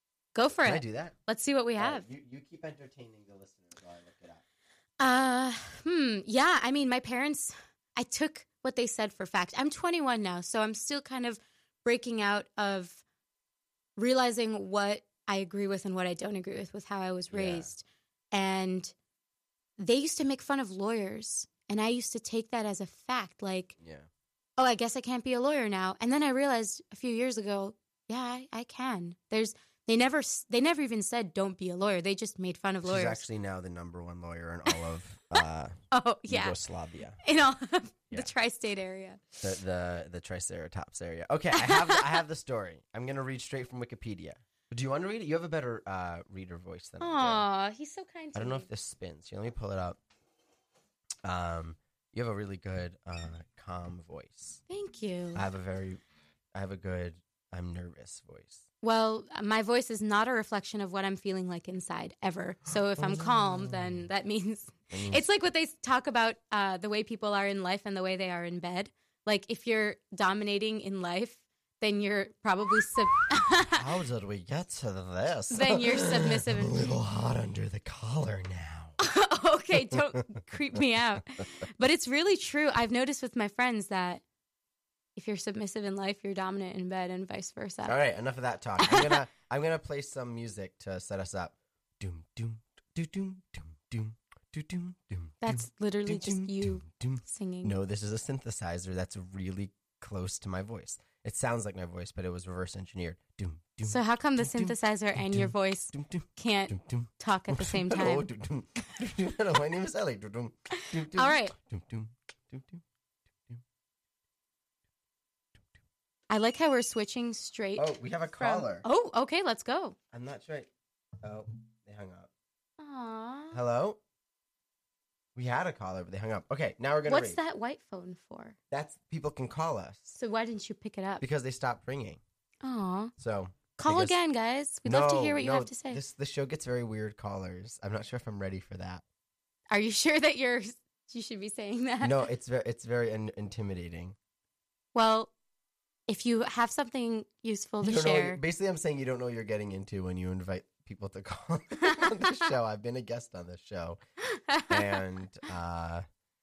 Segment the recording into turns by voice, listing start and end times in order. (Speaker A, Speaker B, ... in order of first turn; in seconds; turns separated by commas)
Speaker A: 0.3-2.0, Speaker B: 0.6-1.1, Speaker B: 1.8-4.4, Speaker A: 5.0-13.0, Speaker A: 14.0-18.9, Speaker B: 17.3-17.7, Speaker A: 19.8-23.7, Speaker B: 23.8-24.1, Speaker A: 24.6-33.2, Speaker B: 32.8-35.8, Speaker A: 35.9-36.6, Speaker B: 36.3-37.2, Speaker A: 37.2-39.2, Speaker B: 39.4-47.4, Speaker A: 41.5-42.2, Speaker A: 47.0-48.7, Speaker B: 48.3-50.0, Speaker B: 51.2-54.6, Speaker A: 54.7-55.5, Speaker B: 55.3-56.0, Speaker B: 56.5-58.6, Speaker A: 58.8-73.8, Speaker B: 63.0-64.1, Speaker B: 64.9-65.2, Speaker B: 73.7-79.0, Speaker A: 75.5-76.8, Speaker A: 79.0-84.2, Speaker B: 79.7-80.2, Speaker A: 85.2-88.0, Speaker B: 87.8-112.8, Speaker A: 88.8-89.2, Speaker A: 95.4-97.7, Speaker A: 103.8-108.3, Speaker A: 110.7-111.5, Speaker A: 116.3-120.0, Speaker B: 117.8-118.8, Speaker B: 120.1-120.7, Speaker B: 121.2-122.3, Speaker A: 122.8-123.6, Speaker B: 123.5-124.0, Speaker B: 125.3-127.4, Speaker A: 127.0-128.6, Speaker B: 128.7-130.2, Speaker A: 130.1-131.2, Speaker B: 131.2-132.2, Speaker A: 132.6-133.1, Speaker B: 133.2-134.2, Speaker A: 133.8-136.0, Speaker B: 134.8-139.0, Speaker A: 139.7-142.2, Speaker B: 142.0-144.2, Speaker A: 144.9-145.3, Speaker A: 146.1-148.4, Speaker B: 147.8-154.0, Speaker A: 154.3-154.9, Speaker B: 154.7-156.0